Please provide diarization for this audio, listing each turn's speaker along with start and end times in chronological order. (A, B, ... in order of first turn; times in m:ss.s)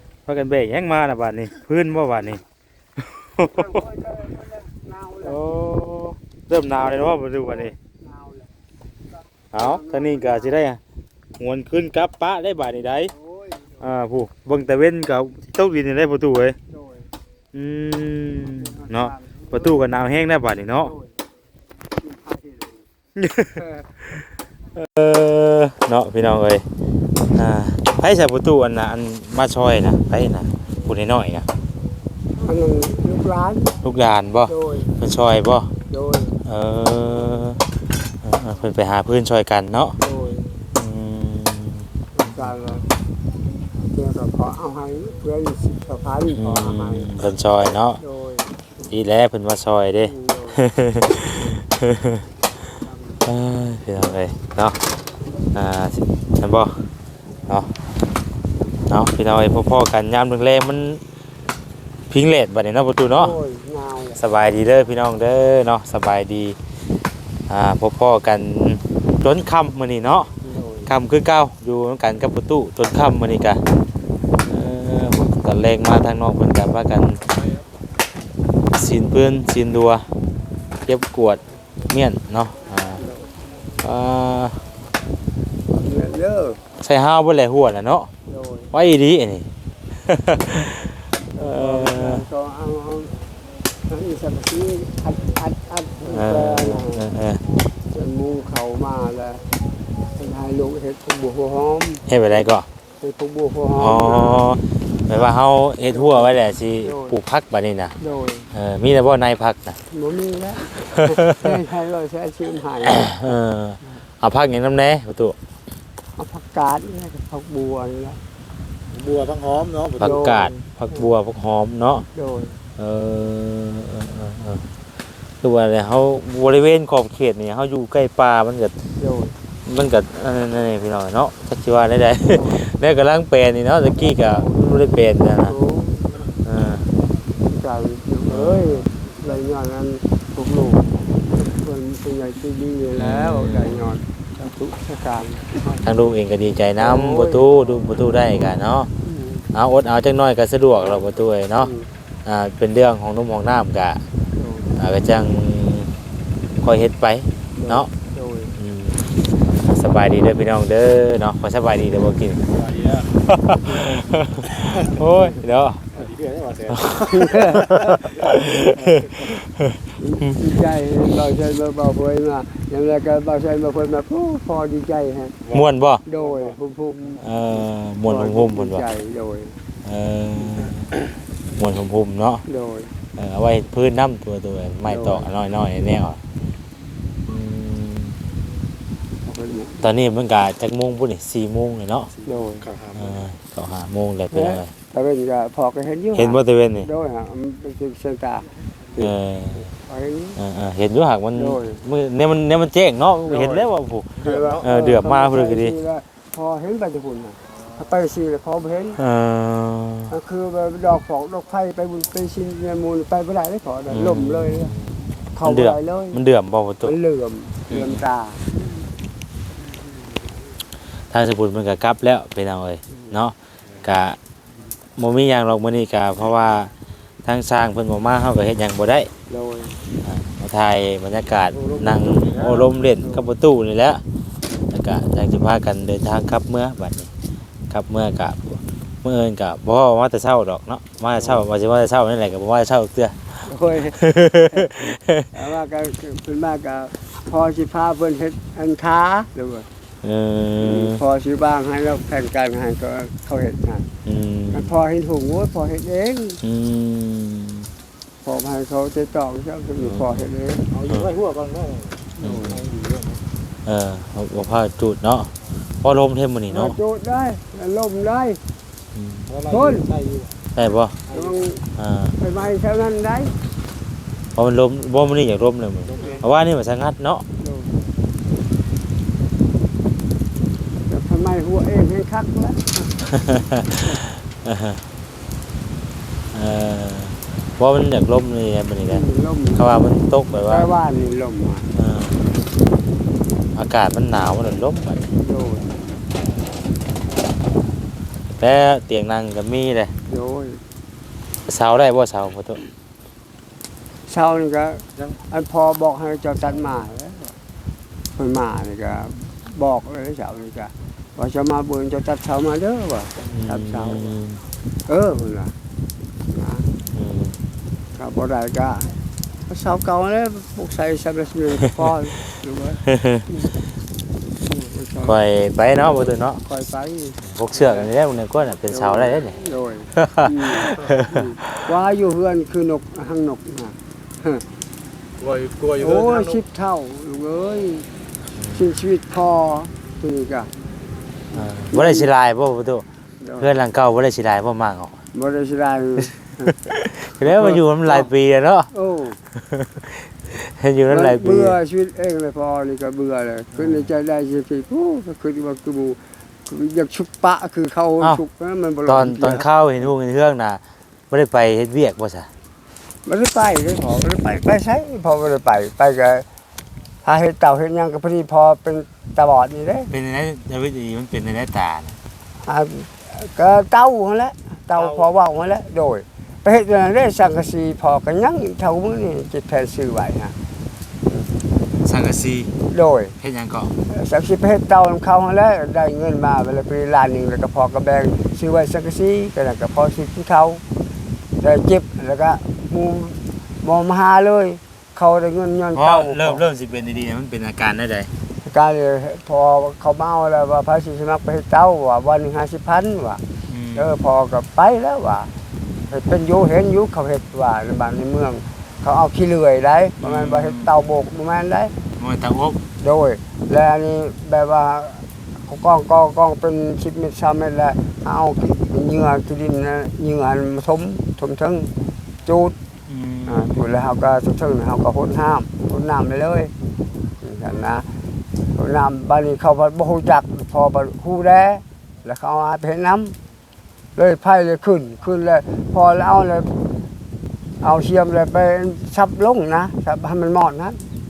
0:00.3-0:02.4 A
0:03.0-0:03.8 A
0:03.5-0:05.4 B
0:05.2-0:07.8 A
0:07.7-0:08.4 B
0:09.5-0:10.8 A
0:09.6-0:10.6 B
0:11.4-0:13.1 A
0:13.2-0:13.8 B
0:13.8-0:16.6 A
0:16.7-0:17.0 B
0:17.5-0:20.9 A
0:18.5-0:19.7 B
0:20.8-0:21.1 B
0:22.0-0:22.8 B
0:23.2-0:26.7 A
0:27.3-0:31.5 A
0:32.4-0:33.7 B
0:33.8-0:35.7 A
0:34.5-0:34.9 B
0:35.9-0:36.4 B
0:36.4-0:37.6 A
0:38.2-0:40.0 A
0:40.0-0:40.5 B
0:40.7-0:41.9 A
0:42.2-0:42.9 B
0:43.9-0:47.1 B
0:46.3-0:48.0 A
0:48.0-0:48.5 B
0:48.9-0:52.3 A
0:50.0-0:50.6 B
0:53.2-0:54.8 A
0:55.5-0:56.8 A
0:58.9-1:01.0 A
1:02.1-1:03.4 A
1:03.1-1:04.2 B
1:04.2-1:06.6 A
1:07.5-1:10.3 A
1:10.4-1:10.9 B
1:10.9-1:13.6 A
1:14.4-1:17.2 A
1:18.7-1:20.1 A
1:20.9-1:23.0 A
1:23.0-1:23.3 B
1:23.8-1:24.6 A
1:25.7-1:26.6 B
1:26.8-1:28.1 A
1:28.3-1:28.7 B
1:28.7-1:29.5 A
1:30.0-1:32.2 A
1:31.4-1:33.1 B
1:33.9-1:37.1 B
1:36.1-1:37.4 A
1:37.9-1:39.4 B
1:40.2-1:42.1 B
1:42.1-1:42.7 A
1:43.0-1:44.5 B
1:43.8-1:48.0 A
1:46.0-1:47.2 B
1:48.0-1:48.5 B
1:48.5-1:49.8 A
1:49.9-1:53.2 B
1:50.9-1:51.5 A
1:52.9-1:55.4 A
1:56.2-1:58.2 B
1:59.1-1:59.8 C
2:00.0-2:02.1 A
2:00.0-2:01.0 B
2:02.2-2:02.6 B
2:02.8-2:04.6 A
2:05.4-2:08.7 A
2:09.0-2:09.4 B
2:09.6-2:15.6 A
2:12.3-2:12.6 B
2:14.3-2:14.7 B
2:15.4-2:16.3 B
2:16.4-2:16.9 A
2:17.4-2:25.8 B
2:18.3-2:18.7 A
2:23.0-2:24.0 A
2:25.8-2:28.9 A
2:26.8-2:27.5 B
2:29.0-2:29.5 B
2:29.5-2:31.7 A
2:31.6-2:31.9 B
2:32.3-2:34.0 A
2:34.4-2:34.7 B
2:34.8-2:35.9 A
2:36.6-2:37.9 A
2:37.6-2:38.5 B
2:38.6-2:42.4 A
2:43.0-2:45.8 A
2:46.2-2:46.9 C
2:46.7-2:47.2 A
2:47.1-2:47.8 B
2:47.8-2:49.8 A
2:50.0-2:55.4 B
2:55.5-2:56.0 A
2:56.1-2:57.2 B
2:57.2-2:58.8 A
2:58.0-2:59.6 B
2:59.8-3:00.9 A
3:01.6-3:02.4 A
3:02.5-3:02.9 B
3:03.2-3:06.2 A
3:04.9-3:05.3 B
3:07.3-3:08.2 A
3:09.2-3:09.9 B
3:09.8-3:12.1 A
3:12.2-3:12.7 B
3:13.0-3:14.7 A
3:14.3-3:18.5 B
3:16.2-3:16.9 A
3:19.0-3:19.7 A
3:19.7-3:20.4 B
3:20.4-3:25.8 A
3:21.4-3:21.8 B
3:24.2-3:29.0 B
3:29.0-3:30.1 A
3:30.1-3:34.7 B
3:33.9-3:37.0 A
3:35.4-3:36.2 B
3:36.8-3:38.8 B
3:37.7-3:38.0 A
3:41.1-3:44.2 A
3:45.0-3:46.7 A
3:47.2-3:49.1 A
3:49.3-3:49.8 B
3:50.0-3:54.0 A
3:54.7-3:57.1 A
3:57.7-4:03.4 A
4:01.2-4:01.4 B
4:03.4-4:04.0 B
4:03.9-4:05.3 A
4:04.5-4:09.7 B
4:10.0-4:11.0 A
4:10.6-4:13.9 B
4:14.1-4:14.7 A
4:14.5-4:16.4 B
4:16.4-4:17.7 A
4:18.2-4:20.6 B
4:19.8-4:20.3 A
4:20.9-4:21.2 A
4:21.3-4:21.7 C
4:22.2-4:22.7 A
4:23.7-4:25.3 A
4:25.8-4:26.8 A
4:26.5-4:28.4 B
4:29.0-4:29.4 A
4:29.5-4:29.9 B
4:30.6-4:31.0 A
4:31.1-4:31.6 B
4:31.8-4:32.2 A
4:32.2-4:33.3 B
4:34.4-4:37.2 A
4:37.4-4:37.8 B
4:40.9-4:42.9 B
4:43.1-4:43.8 A
4:44.4-4:44.8 A
4:46.3-4:49.0 A
4:48.9-4:49.7 B
4:49.6-4:50.7 A
4:50.4-4:51.7 B
4:51.7-4:52.2 A
4:53.6-4:55.1 A
4:55.2-4:55.8 B
4:58.4-4:59.9 A
5:00.1-5:00.6 B
5:01.5-5:02.6 A
5:04.1-5:07.4 B
5:08.2-5:14.1 B
5:13.2-5:14.4 A
5:14.9-5:15.5 B
5:16.3-5:16.7 B
5:16.9-5:17.4 A
5:18.0-5:23.5 B
5:24.4-5:25.2 B
5:25.0-5:26.4 A
5:25.8-5:27.9 B
5:27.2-5:29.4 A
5:28.7-5:34.4 B
5:30.0-5:31.6 A
5:35.2-5:35.8 C
5:35.7-5:37.9 B
5:38.4-5:38.7 A
5:38.5-5:40.5 B
5:41.3-5:42.8 A
5:41.3-5:42.1 B
5:43.2-5:43.5 B
5:43.4-5:45.0 A
5:45.1-5:46.6 B
5:46.6-5:48.7 A
5:47.2-5:48.1 B
5:48.7-5:49.2 B
5:49.4-5:51.6 A
5:50.9-5:59.5 B
5:53.6-5:53.9 A
5:58.9-6:02.3 A
6:03.0-6:06.3 B
6:07.0-6:09.9 B
6:09.9-6:12.0 A
6:12.4-6:20.4 B
6:21.8-6:22.6 A
6:22.6-6:23.1 B
6:23.2-6:23.7 A
6:23.9-6:30.6 B
6:31.4-6:36.4 B
6:35.8-6:38.1 A
6:38.4-6:43.2 B
6:43.5-6:43.9 A
6:43.8-6:45.3 B
6:45.9-6:51.7 B
6:50.0-6:50.7 A
6:52.0-6:52.6 A
6:52.8-7:01.7 B
7:02.3-7:02.6 B
7:02.9-7:03.6 A
7:03.3-7:06.5 B
7:07.2-7:07.9 B
7:08.6-7:13.2 B
7:14.0-7:16.5 B
7:17.6-7:20.8 B